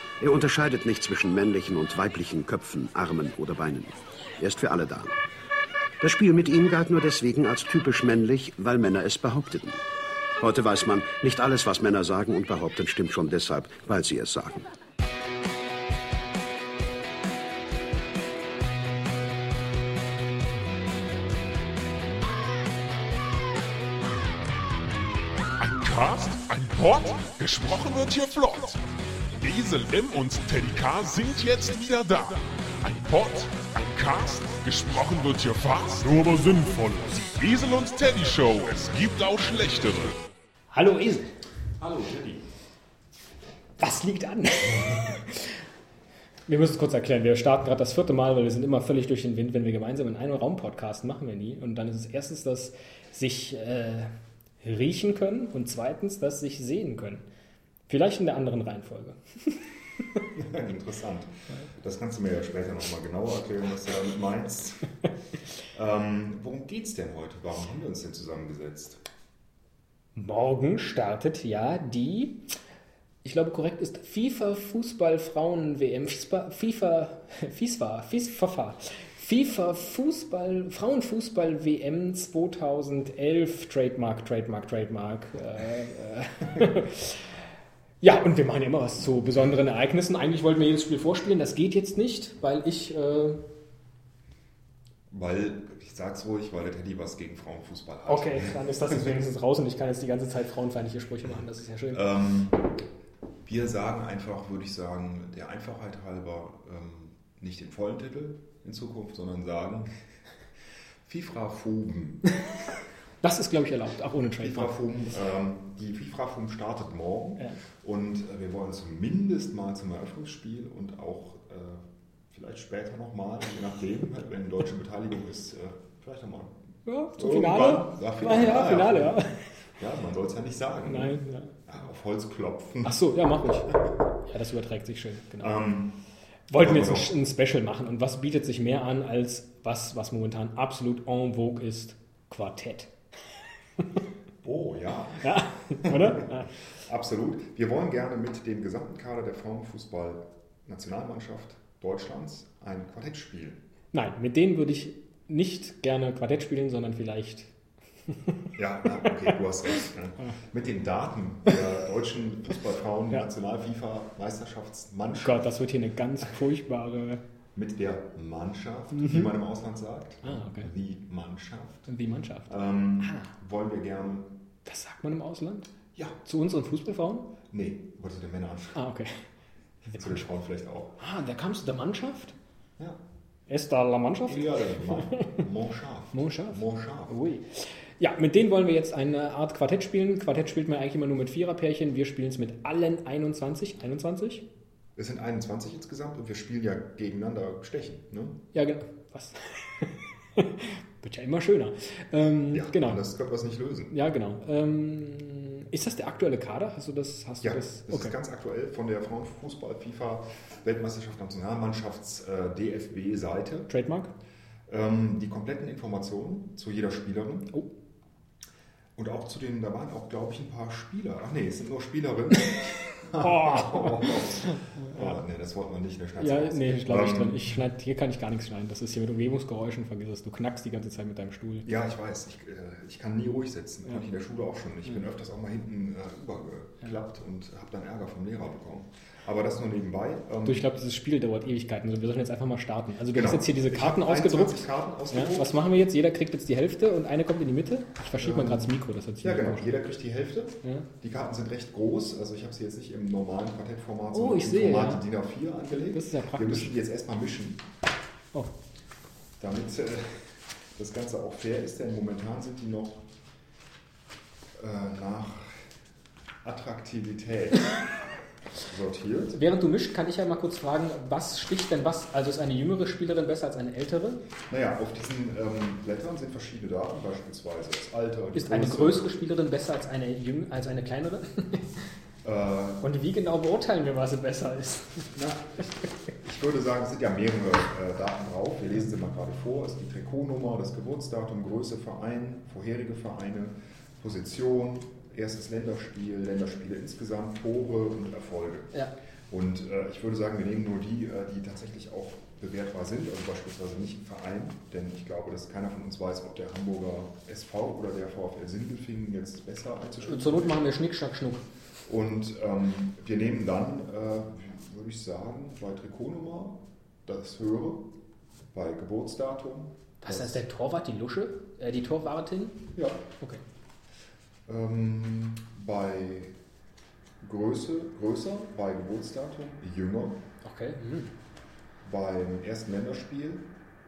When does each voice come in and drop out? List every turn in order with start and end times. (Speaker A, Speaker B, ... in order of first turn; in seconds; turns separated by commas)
Speaker A: 0.2-5.2, Speaker A: 6.0-9.8, Speaker A: 10.4-14.7, Speaker B: 25.6-28.8, Speaker B: 29.4-40.2, Speaker C: 40.7-41.3, Speaker D: 41.8-42.4, Speaker C: 43.8-45.5, Speaker C: 46.5-57.2, Speaker C: 57.9-59.6, Speaker D: 60.3-64.9, Speaker D: 65.7-69.0, Speaker C: 70.1-72.5, Speaker C: 73.2-87.3, Speaker C: 88.0-93.4, Speaker D: 95.1-99.2, Speaker C: 98.1-102.1, Speaker D: 101.9-102.7, Speaker D: 103.4-109.9, Speaker D: 111.0-112.2, Speaker C: 113.2-114.8, Speaker D: 114.4-126.5, Speaker C: 126.8-129.4, Speaker D: 127.1-129.2, Speaker D: 129.8-133.0, Speaker C: 130.8-131.5, Speaker C: 132.8-135.6, Speaker D: 135.4-136.0, Speaker C: 136.5-142.9, Speaker D: 136.6-137.2, Speaker D: 144.4-153.6, Speaker C: 145.2-146.5, Speaker C: 153.9-157.5, Speaker C: 158.1-158.4, Speaker D: 158.6-165.5, Speaker C: 159.0-159.3, Speaker C: 165.2-167.2, Speaker D: 167.5-171.9, Speaker C: 168.9-169.3, Speaker C: 170.2-170.7, Speaker C: 171.9-173.3, Speaker D: 172.5-174.4, Speaker C: 174.6-175.7, Speaker C: 176.2-177.3, Speaker D: 177.5-178.8, Speaker C: 178.7-179.2, Speaker D: 179.9-181.0, Speaker C: 179.9-180.2, Speaker C: 181.0-182.3, Speaker C: 183.5-185.4, Speaker D: 184.2-187.2, Speaker C: 186.1-194.4, Speaker D: 194.9-198.4, Speaker C: 198.5-203.0, Speaker D: 202.5-203.9, Speaker C: 203.9-208.2, Speaker D: 207.4-213.7, Speaker C: 213.7-214.1, Speaker D: 214.7-217.5, Speaker D: 218.9-227.5, Speaker C: 223.0-225.2, Speaker C: 226.2-231.7, Speaker D: 231.6-240.6, Speaker C: 240.4-249.7, Speaker D: 243.1-245.5, Speaker D: 248.2-257.6, Speaker C: 254.1-255.1, Speaker C: 255.9-256.7, Speaker D: 259.4-263.0, Speaker D: 264.6-265.7, Speaker D: 266.4-267.7, Speaker D: 268.6-269.4, Speaker C: 269.3-274.2, Speaker D: 274.5-279.1, Speaker C: 278.3-281.8, Speaker D: 282.2-282.8, Speaker C: 282.8-285.1, Speaker D: 285.1-285.6, Speaker D: 286.2-298.7, Speaker D: 299.3-310.7, Speaker C: 310.0-311.4, Speaker D: 311.8-317.9, Speaker D: 318.5-320.4, Speaker C: 320.0-323.4, Speaker D: 322.7-323.0, Speaker D: 324.4-326.4, Speaker D: 327.2-330.2, Speaker C: 330.4-331.1, Speaker D: 331.8-333.5